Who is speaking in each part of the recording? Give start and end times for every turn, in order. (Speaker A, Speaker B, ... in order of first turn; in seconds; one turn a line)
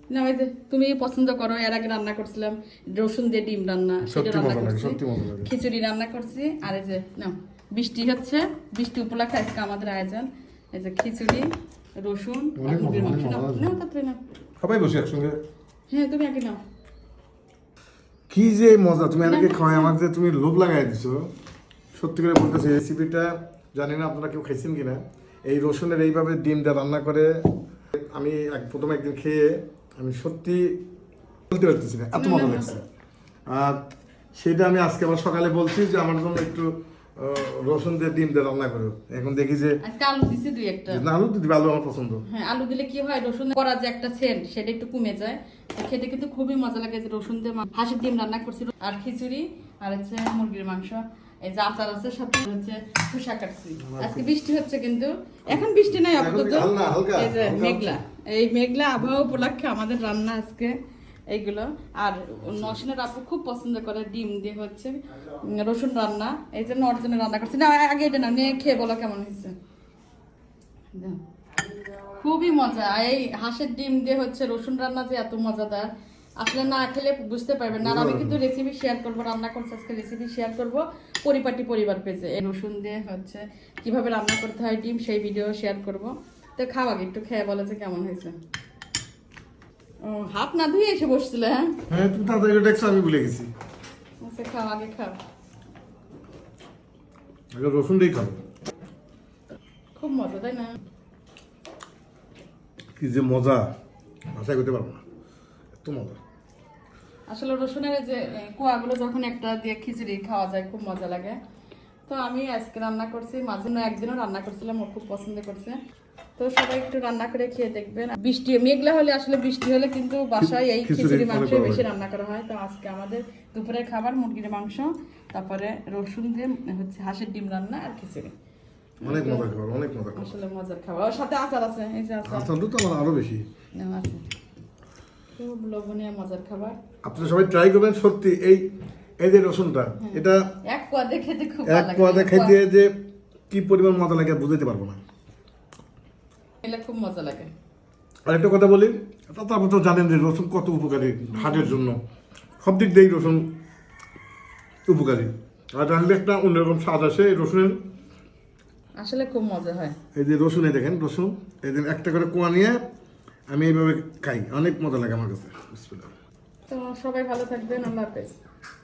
Speaker A: 0.1-14.2
Speaker B: 4.0-5.5
Speaker B: 12.6-13.7
Speaker B: 14.6-15.4
Speaker A: 15.9-16.6
Speaker B: 18.3-21.3
Speaker A: 19.2-19.9
Speaker B: 21.9-30.8
Speaker B: 31.5-32.9
Speaker A: 32.1-32.8
Speaker B: 33.5-39.8
Speaker A: 39.8-41.0
Speaker B: 40.9-42.2
Speaker A: 42.3-60.8
Speaker B: 53.8-54.3
Speaker B: 55.5-58.0
Speaker A: 61.3-69.5
Speaker A: 70.9-71.2
Speaker A: 72.0-88.3
Speaker B: 77.8-78.4
Speaker A: 90.0-91.8
Speaker B: 91.9-93.5
Speaker A: 94.2-95.2
Speaker B: 97.5-98.4
Speaker A: 100.0-100.8
Speaker B: 103.0-103.7
Speaker B: 104.3-105.0
Speaker B: 105.8-106.2
Speaker A: 107.3-111.4
Speaker A: 112.1-115.8
Speaker A: 116.4-128.3
Speaker B: 120.8-121.8
Speaker A: 129.0-129.5
Speaker B: 129.0-130.3
Speaker A: 130.2-132.5
Speaker B: 132.2-133.5
Speaker A: 133.8-134.2
Speaker A: 135.4-136.8
Speaker B: 137.0-138.7
Speaker B: 139.2-140.5
Speaker A: 140.0-142.6
Speaker B: 141.7-142.9
Speaker B: 143.5-145.0
Speaker A: 146.6-147.5
Speaker B: 148.3-152.0
Speaker A: 151.3-151.8
Speaker B: 152.6-153.5
Speaker B: 154.9-157.8
Speaker A: 159.0-160.0
Speaker B: 160.2-162.8
Speaker B: 163.5-166.1
Speaker A: 166.7-168.4